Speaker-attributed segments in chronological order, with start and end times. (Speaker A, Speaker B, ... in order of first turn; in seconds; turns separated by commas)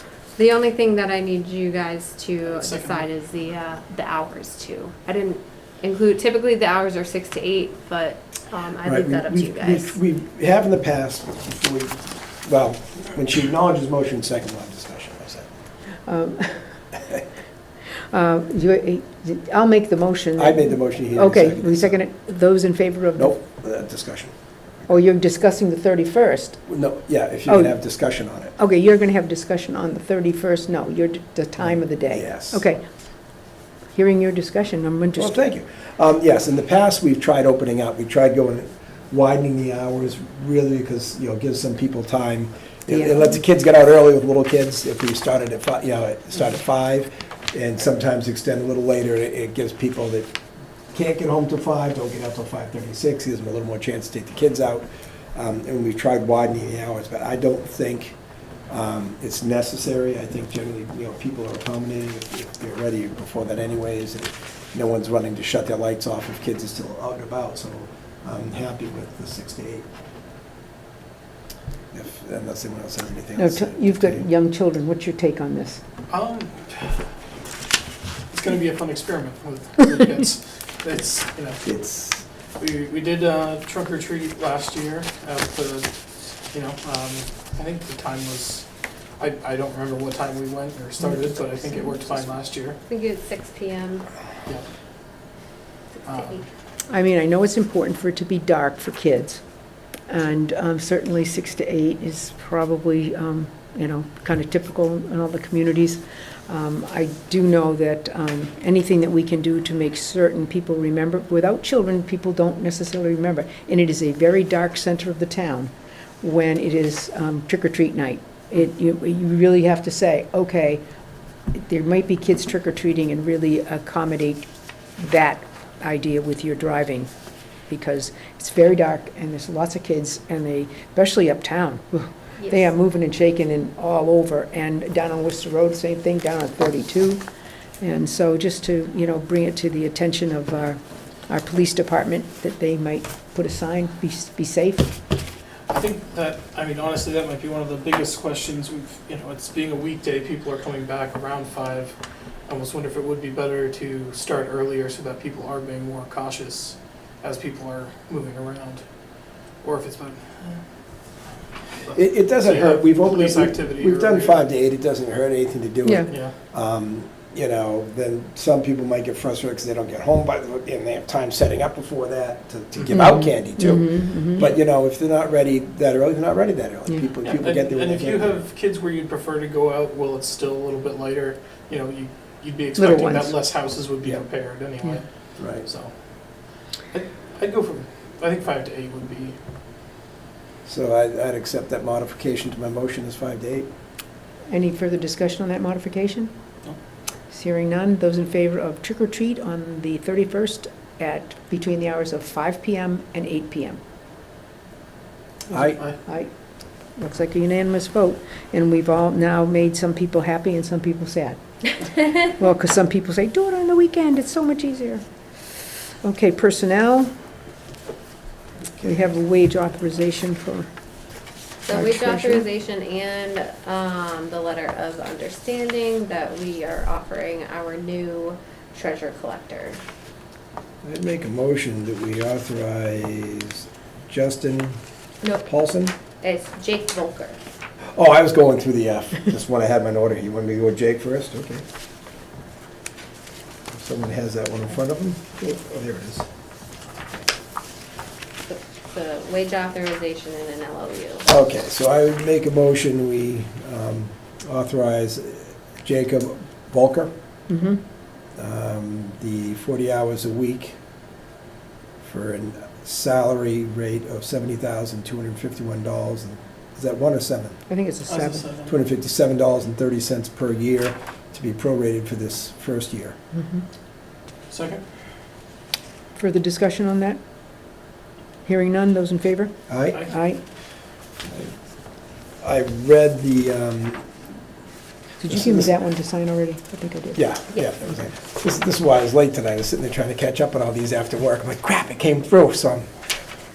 Speaker A: 0.3-10.0, Speaker B: 2.5-3.0, Speaker C: 8.8-15.5, Speaker D: 16.1-16.6, Speaker D: 18.1-23.4, Speaker C: 20.4-21.9, Speaker C: 23.2-24.3, Speaker D: 24.9-26.6, Speaker C: 26.7-28.5, Speaker D: 27.5-27.7, Speaker D: 28.6-32.8, Speaker C: 32.1-32.6, Speaker D: 33.9-35.4, Speaker C: 35.2-50.3, Speaker D: 42.9-43.4, Speaker C: 50.9-58.1, Speaker C: 58.7-69.8, Speaker C: 71.9-74.2, Speaker D: 73.3-75.8, Speaker B: 76.1-77.0, Speaker B: 78.3-81.6, Speaker C: 81.6-82.2, Speaker B: 82.6-85.9, Speaker B: 86.5-88.7, Speaker B: 89.2-92.8, Speaker A: 91.7-92.2, Speaker A: 92.8-94.1, Speaker A: 96.0-96.4, Speaker B: 96.0-96.4, Speaker D: 96.9-99.4, Speaker D: 100.1-120.8, Speaker D: 121.5-124.5, Speaker D: 125.0-127.1, Speaker D: 127.7-137.2, Speaker D: 137.8-144.9, Speaker B: 145.7-160.6, Speaker B: 161.8-164.4, Speaker C: 161.9-178.4, Speaker D: 165.8-166.1, Speaker B: 166.1-166.3, Speaker D: 172.9-174.5, Speaker B: 177.2-189.4, Speaker D: 182.8-183.3, Speaker C: 185.4-185.7, Speaker C: 190.6-193.7, Speaker D: 194.5-196.3, Speaker D: 197.3-203.8, Speaker C: 205.5-205.8, Speaker D: 206.0-206.3, Speaker D: 207.0-215.0, Speaker D: 216.0-217.1, Speaker D: 218.8-220.7, Speaker A: 221.7-229.8, Speaker D: 221.7-222.4, Speaker C: 230.8-234.8, Speaker A: 235.2-235.5, Speaker C: 235.4-235.9, Speaker A: 236.2-237.4, Speaker C: 237.9-241.6, Speaker C: 243.7-246.2, Speaker A: 248.4-251.3, Speaker C: 251.3-257.1, Speaker D: 257.5-257.8, Speaker C: 258.4-260.8, Speaker C: 262.0-267.6, Speaker D: 267.7-268.4, Speaker B: 268.1-268.7, Speaker C: 268.7-273.1, Speaker D: 273.3-273.6, Speaker B: 274.5-274.8, Speaker D: 276.2-277.2, Speaker D: 278.4-280.4, Speaker C: 279.7-280.0, Speaker C: 282.4-284.1, Speaker D: 285.2-287.2, Speaker C: 285.3-285.7, Speaker C: 287.1-292.9